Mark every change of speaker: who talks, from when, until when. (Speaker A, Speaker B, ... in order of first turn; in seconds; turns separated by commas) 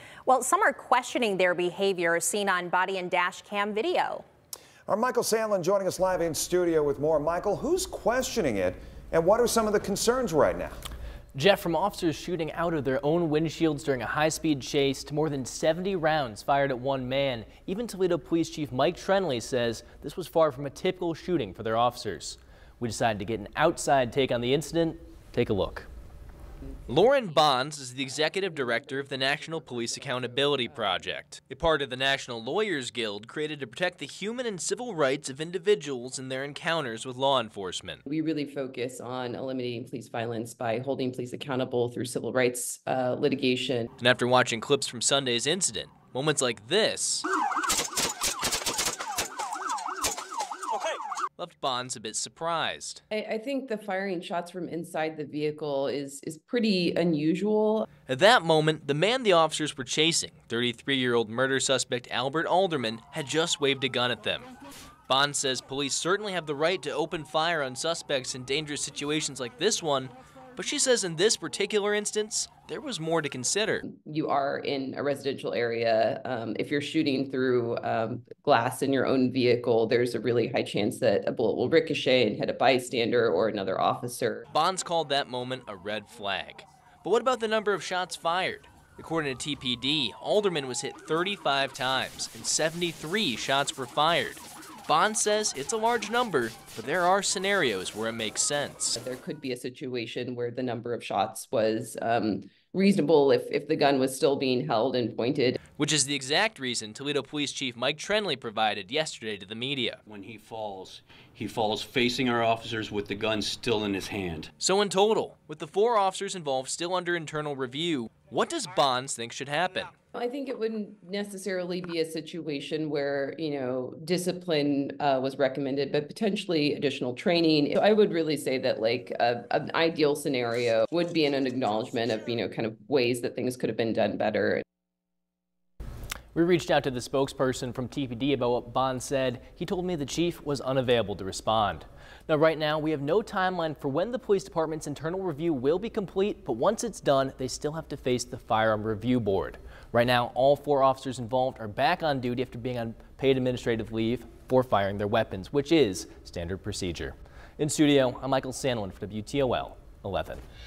Speaker A: 0.2-4.2, Speaker B: 4.9-10.8, Speaker C: 11.3-25.9, Speaker C: 26.9-38.0, Speaker D: 28.2-31.1, Speaker D: 38.0-43.9, Speaker C: 44.0-47.3, Speaker C: 51.4-53.0, Speaker D: 53.1-57.9, Speaker C: 58.1-64.5, Speaker C: 65.1-73.8, Speaker D: 73.8-84.5, Speaker C: 84.5-99.0, Speaker D: 99.0-105.6, Speaker C: 105.8-110.0, Speaker E: 110.0-114.5, Speaker C: 114.6-119.9, Speaker D: 120.1-134.6, Speaker C: 136.3-160.4